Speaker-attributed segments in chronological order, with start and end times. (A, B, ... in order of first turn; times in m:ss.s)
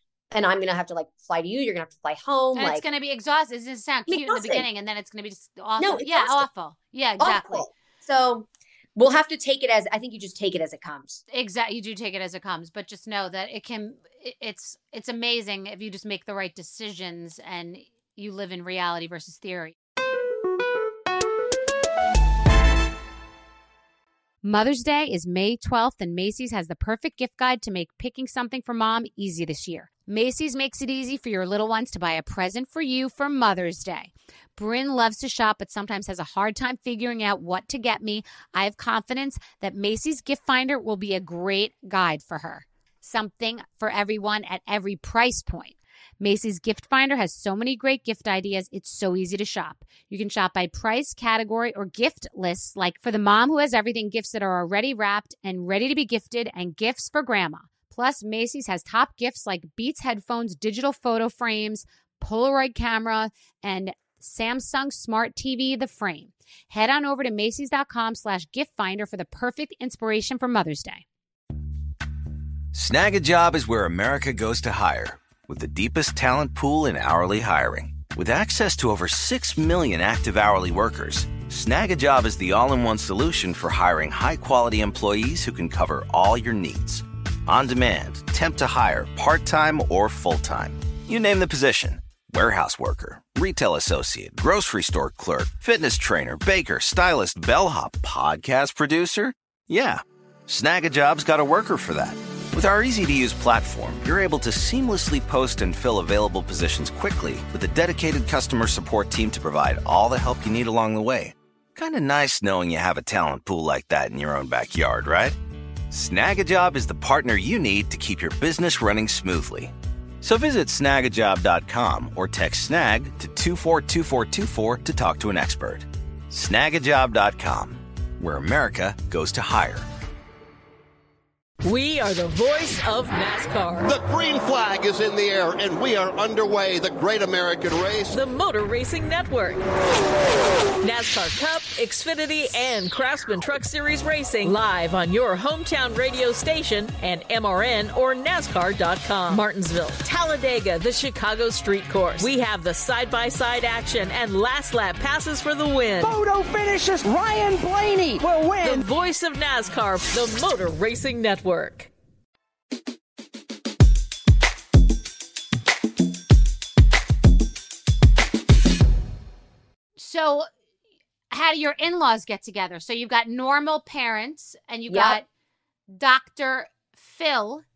0:00.3-0:02.8 A
0:02.6-0:07.7 B
0:04.1-0:04.7 A
0:05.8-0:06.5 A
0:07.2-0:11.2 A
0:11.3-0:19.8 B
0:24.4-1:11.0 B
1:12.7-1:55.4 C
1:55.9-2:09.9 C
2:11.6-2:13.9 D
2:13.9-2:18.2 E
2:18.1-2:19.6 D
2:20.8-2:36.2 D
2:36.0-2:38.9 F
2:38.6-2:41.9 D
2:50.0-2:50.5 B
2:51.3-2:55.3 B
2:54.9-2:55.2 A
2:55.9-2:57.6 B